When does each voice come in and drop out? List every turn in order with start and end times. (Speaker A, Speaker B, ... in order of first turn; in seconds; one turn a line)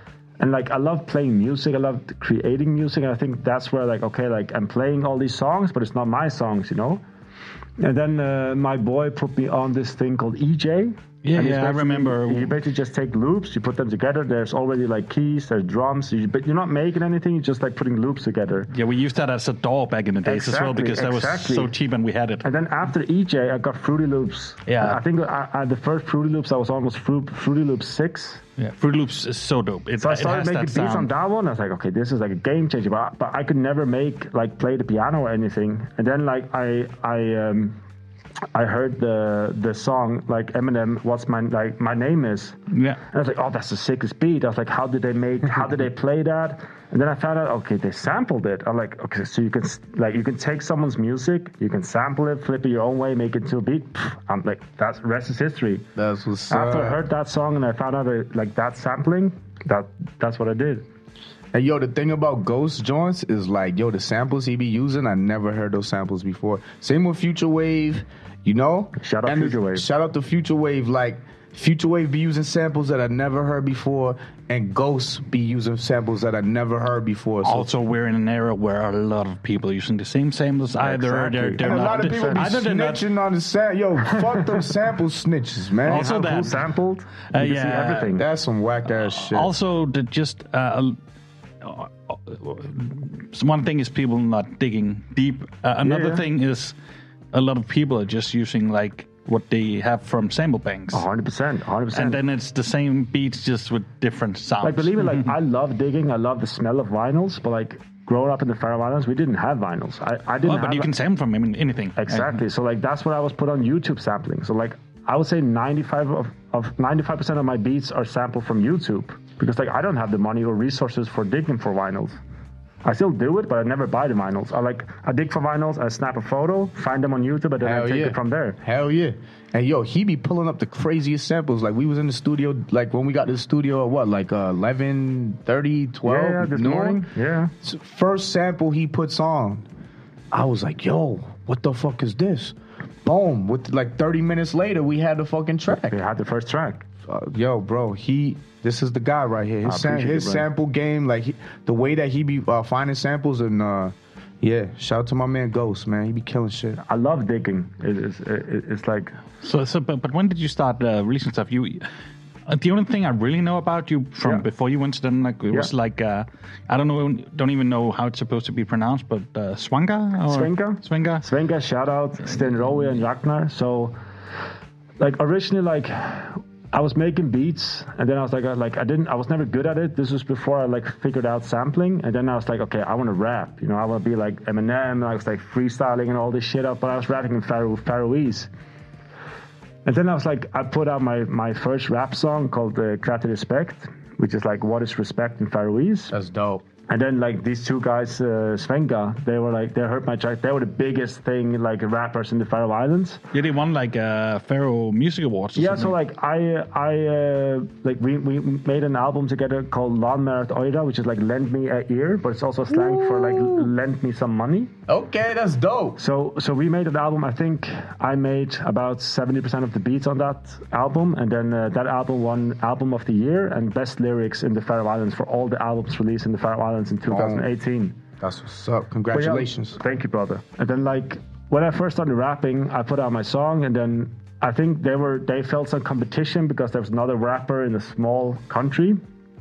Speaker A: 0.4-7.0
Speaker A: 7.8-18.7
Speaker B: 11.2-12.5
Speaker B: 18.7-22.5
Speaker A: 20.2-21.7
Speaker A: 22.4-28.4
Speaker B: 24.6-25.0
Speaker B: 28.6-31.1
Speaker A: 30.0-37.8
Speaker A: 38.5-42.6
Speaker B: 42.7-43.0
Speaker A: 43.1-55.8
Speaker C: 56.0-57.0
Speaker A: 56.5-60.9
Speaker C: 61.5-77.7
Speaker A: 69.0-69.8
Speaker B: 77.4-83.0
Speaker A: 80.8-82.5
Speaker C: 81.6-86.3
Speaker A: 84.1-84.6
Speaker A: 85.8-88.3
Speaker B: 85.8-86.6
Speaker B: 87.3-88.1
Speaker C: 88.1-89.5
Speaker B: 89.1-91.0
Speaker B: 91.6-96.7
Speaker A: 95.8-96.2
Speaker B: 97.3-101.0
Speaker A: 100.9-102.2
Speaker B: 101.9-105.3
Speaker A: 104.6-110.9
Speaker B: 110.5-112.4
Speaker A: 112.0-122.2
Speaker A: 122.8-128.6
Speaker C: 127.6-137.1
Speaker A: 136.0-137.5
Speaker C: 137.6-139.7
Speaker C: 140.3-146.0
Speaker A: 145.7-146.8
Speaker C: 147.0-156.8
Speaker A: 149.6-150.4
Speaker A: 156.8-159.2
Speaker B: 159.4-161.8
Speaker B: 162.5-171.2
Speaker A: 164.2-164.4
Speaker A: 170.2-174.0
Speaker B: 172.3-173.0
Speaker A: 175.0-188.5
Speaker A: 189.8-196.1
Speaker C: 196.1-196.6
Speaker A: 196.9-203.2
Speaker B: 203.3-205.9
Speaker A: 205.6-214.7
Speaker C: 212.7-213.6
Speaker C: 214.9-216.0
Speaker A: 216.0-227.9
Speaker C: 227.1-227.4
Speaker C: 228.2-229.8
Speaker A: 229.1-239.0